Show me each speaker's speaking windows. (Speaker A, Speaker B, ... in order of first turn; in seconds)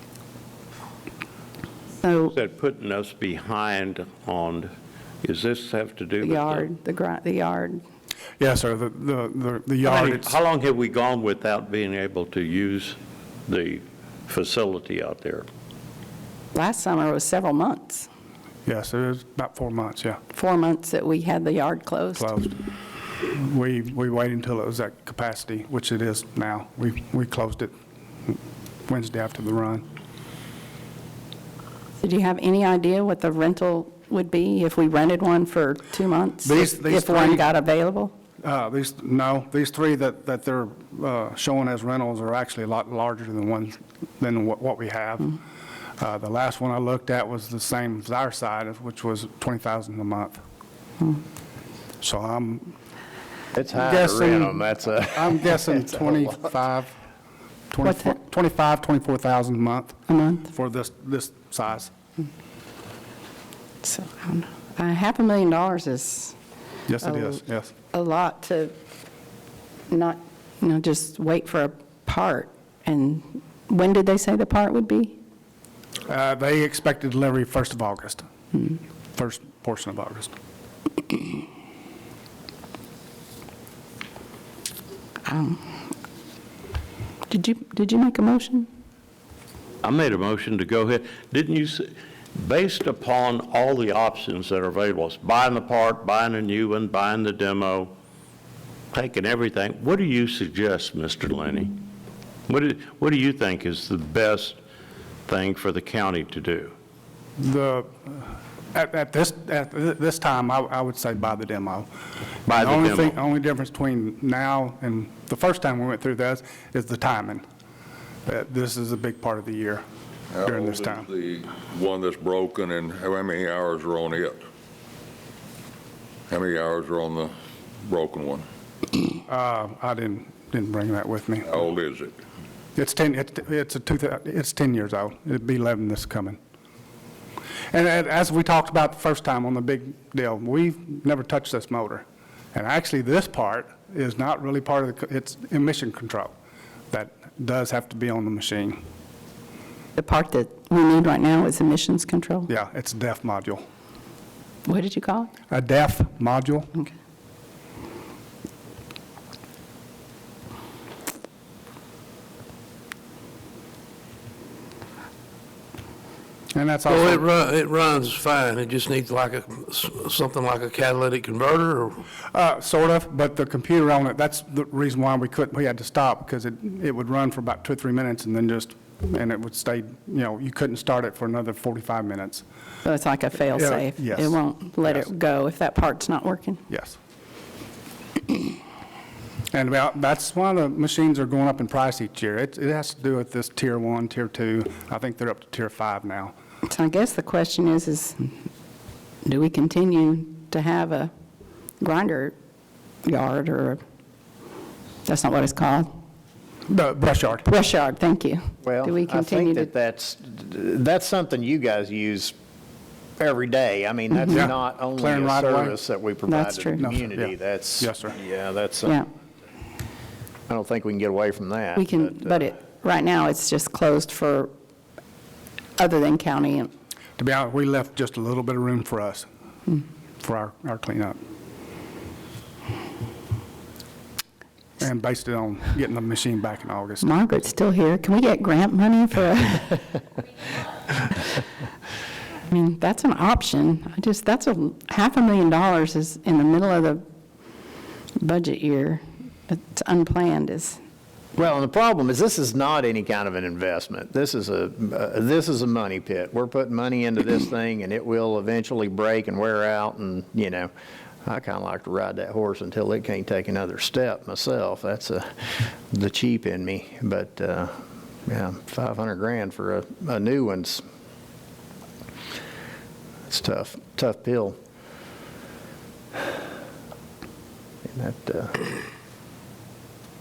Speaker A: 2.0-2.4, 6.2-7.8, 16.5-18.1, 20.3-22.3, 32.0-38.1, 57.8-58.2, 60.1-60.5, 63.8-66.4, 67.0-68.8, 69.9-75.2, 85.2-85.9, 87.3-88.7, 150.0-152.5, 154.7-155.3, 182.8-186.6, 196.7-198.3, 199.2-201.1, 201.8-202.3, 203.0-203.8, 205.1-206.0, 207.4-209.7, 216.3-216.8, 221.8-224.5, 225.8-226.7, 237.0-239.8, 242.5-247.1, 248.2-250.8
Speaker B: 2.3-4.7, 5.2-6.7, 9.8-15.5, 89.8-97.9, 98.9-101.8, 102.5-104.6, 105.3-106.7, 112.5-113.2
Speaker C: 8.4-10.3, 18.7-20.2, 22.2-22.6, 23.2-27.7, 28.9-29.9, 36.4-37.5, 38.4-45.4, 46.0-50.4, 52.0-52.8, 53.8-57.0, 57.7-61.9, 66.9-67.7, 76.1-78.2, 79.1-80.3, 107.4-111.9, 112.5-117.4, 118.3-119.8, 120.5-121.1, 129.3-131.6, 132.8-136.4, 137.7-146.3, 146.9-148.8, 152.5-153.6, 155.5-156.7, 166.5-167.2, 172.3-182.4, 183.5-185.1, 186.7-187.0, 189.5-196.3, 206.7-207.5, 214.3-215.8, 216.8-218.2, 227.2-229.3, 230.2-231.2, 234.8-237.2
Speaker D: 53.5-56.3, 208.6-212.3, 213.2-219.0, 220.5-222.5, 251.4-260.7, 261.2-270.8, 273.3-274.6, 277.9-278.6
Speaker E: 120.3-124.4, 126.3-128.5, 131.5-132.2
Speaker F: 166.9-172.0